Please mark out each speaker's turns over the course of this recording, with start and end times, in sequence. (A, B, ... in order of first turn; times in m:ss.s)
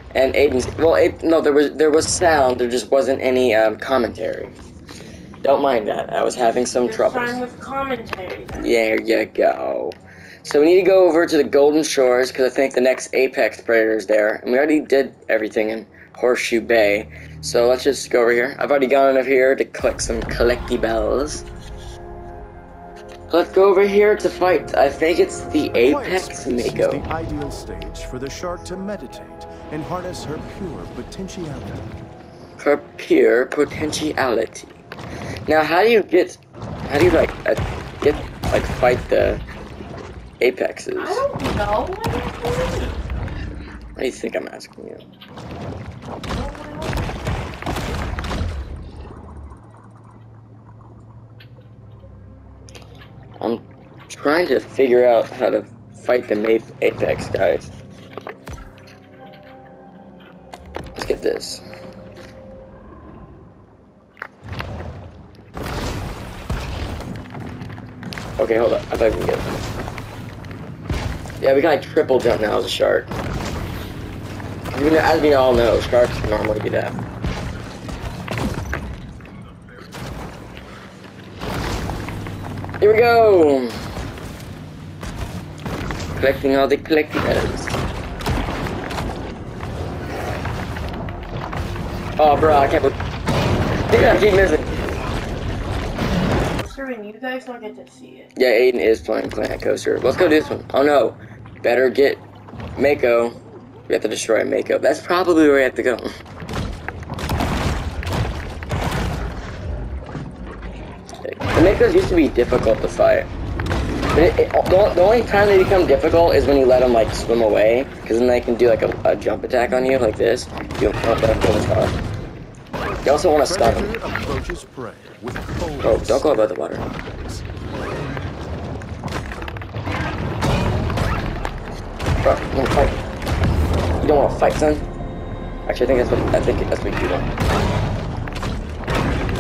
0:00.1-0:04.5 A
0:05.4-0:07.4 A
0:06.8-0:08.7 B
0:08.6-0:21.4 A
0:23.3-0:27.0 A
0:25.8-0:31.8 C
0:32.6-0:34.8 A
0:35.5-0:39.4 A
0:40.4-0:41.2 A
0:41.0-0:43.0 B
0:44.0-0:45.0 A
0:46.2-0:47.1 B
0:53.4-0:57.7 A
1:01.0-1:01.6 A
1:08.4-1:09.6 A
1:11.4-1:13.2 A
1:14.7-1:16.9 A
1:22.8-1:23.7 A
1:26.2-1:27.8 A
1:32.2-1:33.0 A
1:33.9-1:34.8 A
1:36.4-1:38.3 B
1:38.4-1:42.2 A
1:42.8-1:43.4 A
1:43.9-1:46.1 A
1:51.2-1:53.3 A
1:54.1-2:02.0 A
2:03.0-2:03.9 A
2:03.4-2:07.4 C
2:05.8-2:06.8 A
2:12.2-2:13.0 A
2:14.0-2:14.8 A
2:15.7-2:17.3 A